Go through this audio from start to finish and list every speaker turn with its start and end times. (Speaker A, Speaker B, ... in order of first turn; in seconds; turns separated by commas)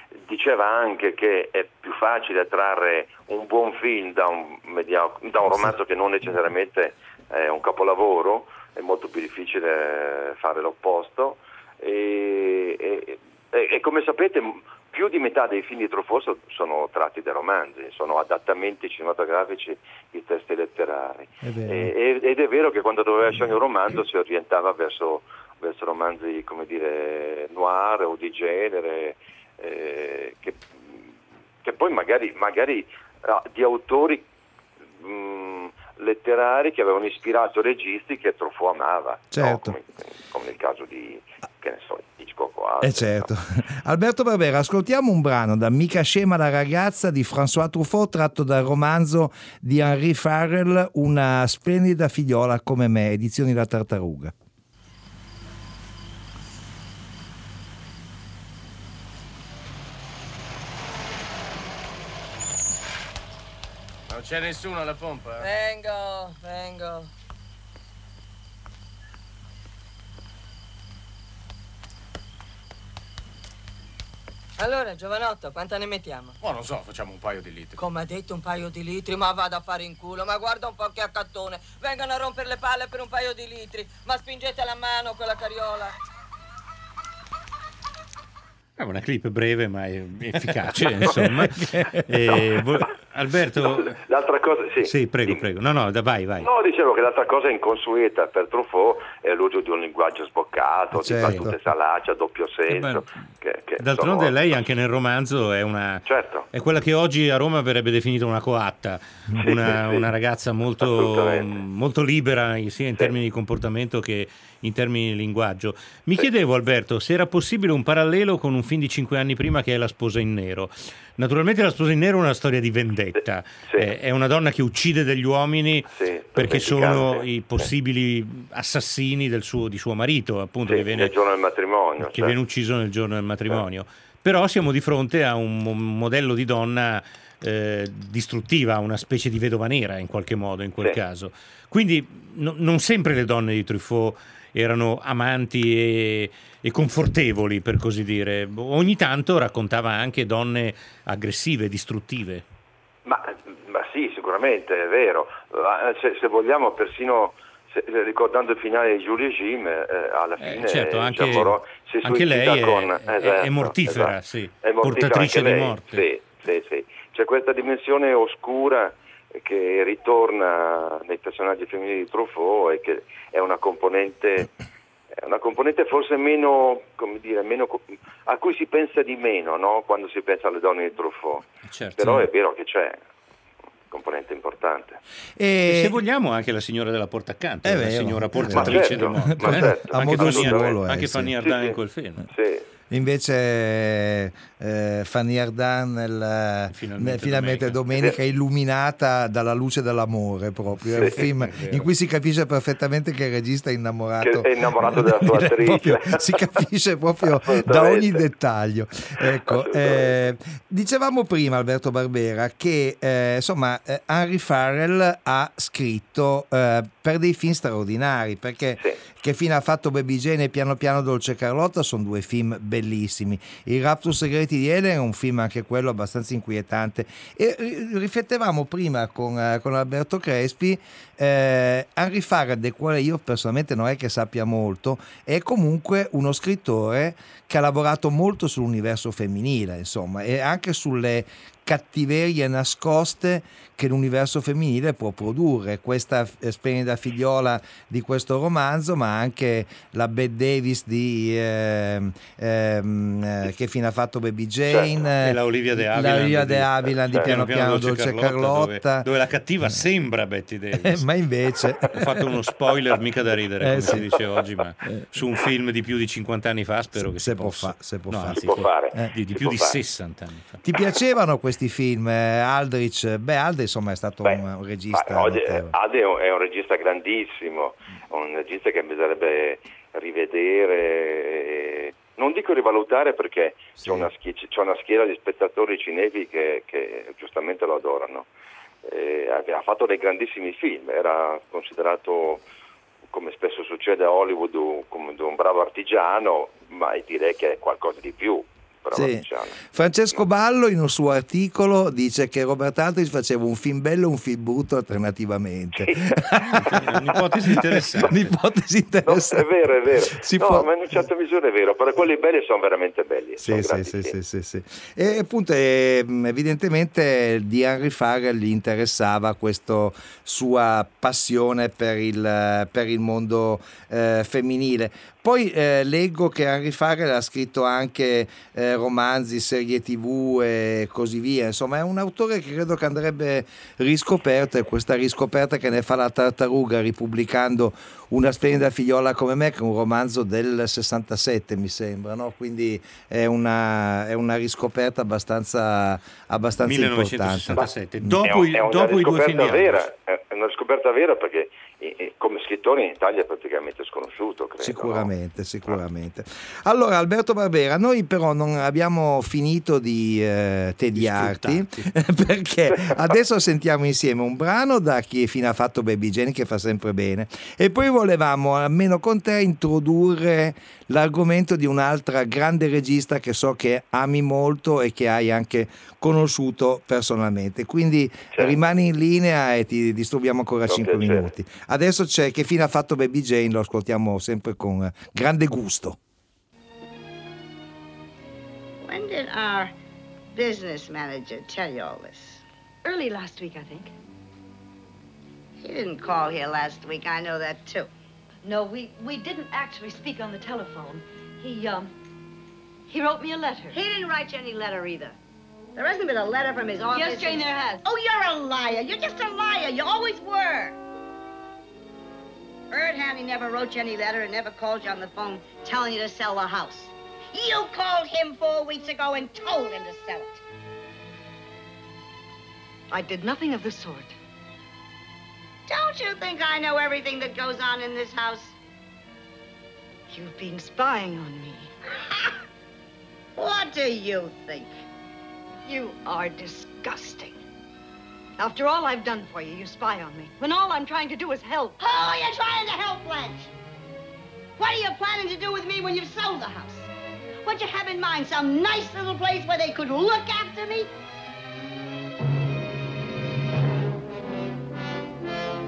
Speaker A: 0.3-31.0, Speaker B: 21.4-21.9, Speaker A: 31.6-34.3, Speaker A: 35.0-43.3, Speaker B: 39.3-39.7, Speaker B: 42.8-54.3, Speaker C: 64.1-65.5, Speaker D: 65.4-67.1, Speaker D: 74.6-76.4, Speaker C: 76.4-77.8, Speaker D: 77.8-85.9, Speaker E: 88.8-94.0, Speaker B: 91.2-92.0, Speaker A: 93.6-95.4, Speaker E: 94.8-96.5, Speaker A: 96.4-104.3, Speaker B: 100.9-101.5, Speaker E: 101.2-101.5, Speaker E: 102.7-103.0, Speaker E: 103.8-131.1, Speaker A: 106.0-106.5, Speaker A: 109.4-110.0, Speaker A: 110.8-111.6, Speaker A: 125.9-127.7, Speaker A: 130.7-132.3, Speaker E: 132.0-152.4, Speaker A: 153.1-174.5, Speaker E: 160.4-166.0, Speaker A: 175.2-183.0, Speaker E: 181.7-182.3, Speaker A: 183.9-185.0, Speaker B: 185.4-185.9, Speaker E: 185.7-192.3, Speaker B: 187.6-191.3, Speaker A: 188.5-190.8, Speaker A: 191.4-191.8, Speaker A: 192.3-192.6, Speaker B: 192.9-259.1, Speaker E: 196.7-197.8, Speaker E: 200.9-201.9, Speaker A: 204.2-206.2, Speaker A: 207.2-208.2, Speaker A: 209.2-210.2, Speaker A: 254.7-255.0, Speaker E: 255.2-261.0, Speaker B: 260.7-262.2, Speaker E: 261.9-270.6, Speaker B: 263.6-264.1, Speaker B: 266.9-269.1, Speaker A: 268.4-269.8, Speaker B: 270.6-275.7, Speaker A: 274.9-288.3, Speaker B: 283.8-284.1, Speaker A: 288.8-292.4, Speaker A: 293.1-299.6, Speaker B: 298.9-309.5, Speaker A: 305.8-306.2, Speaker E: 306.5-308.3, Speaker A: 309.1-314.1, Speaker B: 310.1-310.7, Speaker B: 313.4-348.3, Speaker E: 346.6-349.9, Speaker A: 348.2-355.1, Speaker B: 354.6-386.0, Speaker E: 360.9-361.9, Speaker A: 380.7-381.3, Speaker F: 388.8-389.7, Speaker F: 390.3-392.4, Speaker G: 392.8-393.9, Speaker F: 395.6-397.9, Speaker G: 398.4-401.9, Speaker G: 402.9-403.8, Speaker F: 403.7-405.2, Speaker F: 405.7-410.8, Speaker G: 406.9-407.8, Speaker F: 412.7-420.4, Speaker G: 422.9-424.1, Speaker F: 425.7-428.6, Speaker G: 430.1-431.7, Speaker F: 433.4-434.7, Speaker G: 435.6-437.4, Speaker G: 438.4-441.8, Speaker F: 441.8-443.5, Speaker F: 444.6-446.9, Speaker F: 447.4-450.9